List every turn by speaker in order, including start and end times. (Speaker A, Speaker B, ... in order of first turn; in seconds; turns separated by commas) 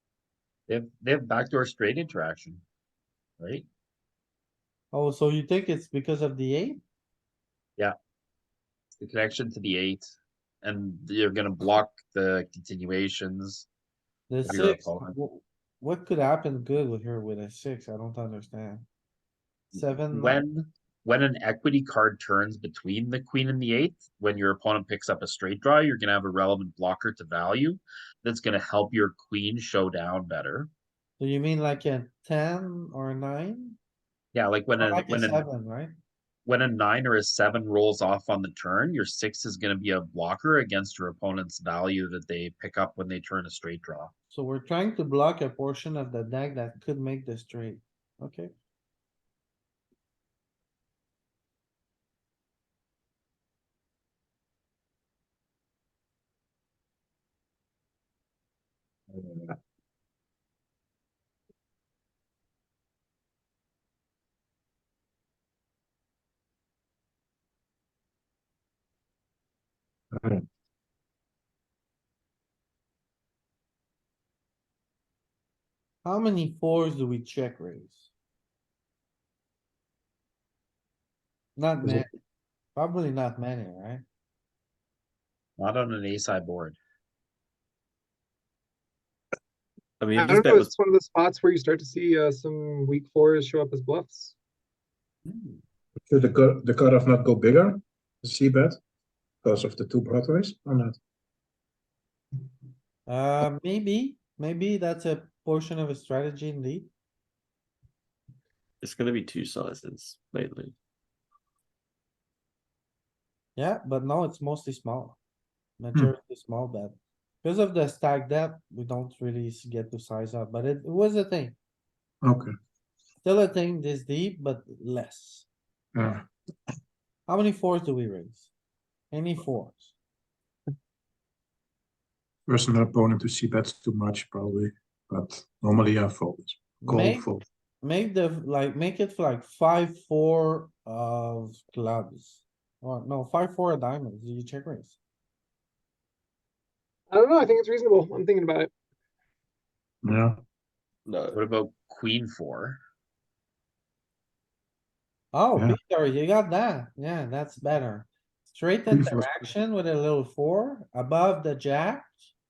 Speaker A: 0.7-2.6, Speaker A: 3.4-3.6, Speaker B: 4.9-6.8, Speaker A: 9.0-13.7, Speaker B: 14.3-18.8, Speaker A: 14.4-15.2, Speaker B: 19.7-20.4, Speaker A: 19.8-30.7, Speaker B: 31.2-33.8, Speaker A: 34.3-35.5, Speaker B: 34.8-35.9, Speaker A: 36.5-44.1, Speaker B: 44.3-48.5, Speaker C: 59.1-59.5, Speaker C: 70.1-70.4, Speaker B: 76.0-78.1, Speaker B: 81.6-82.1, Speaker B: 82.8-84.0, Speaker A: 85.6-86.8, Speaker D: 90.0-90.7, Speaker E: 90.1-94.3, Speaker A: 95.2-95.6, Speaker C: 96.1-98.8, Speaker C: 99.4-101.0, Speaker B: 103.1-106.9, Speaker D: 108.8-110.7, Speaker B: 113.5-115.2, Speaker B: 115.8-121.5, Speaker C: 122.2-122.5, Speaker B: 123.2-125.5, Speaker C: 125.9-126.3, Speaker B: 127.3-128.5, Speaker B: 129.1-129.9, Speaker C: 132.4-137.4, Speaker B: 136.8-137.3, Speaker B: 137.8-145.0, Speaker E: 147.1-148.7, Speaker C: 150.0-150.4, Speaker D: 151.1-151.3, Speaker A: 151.3-152.8, Speaker B: 155.3-162.3, Speaker C: 158.9-159.3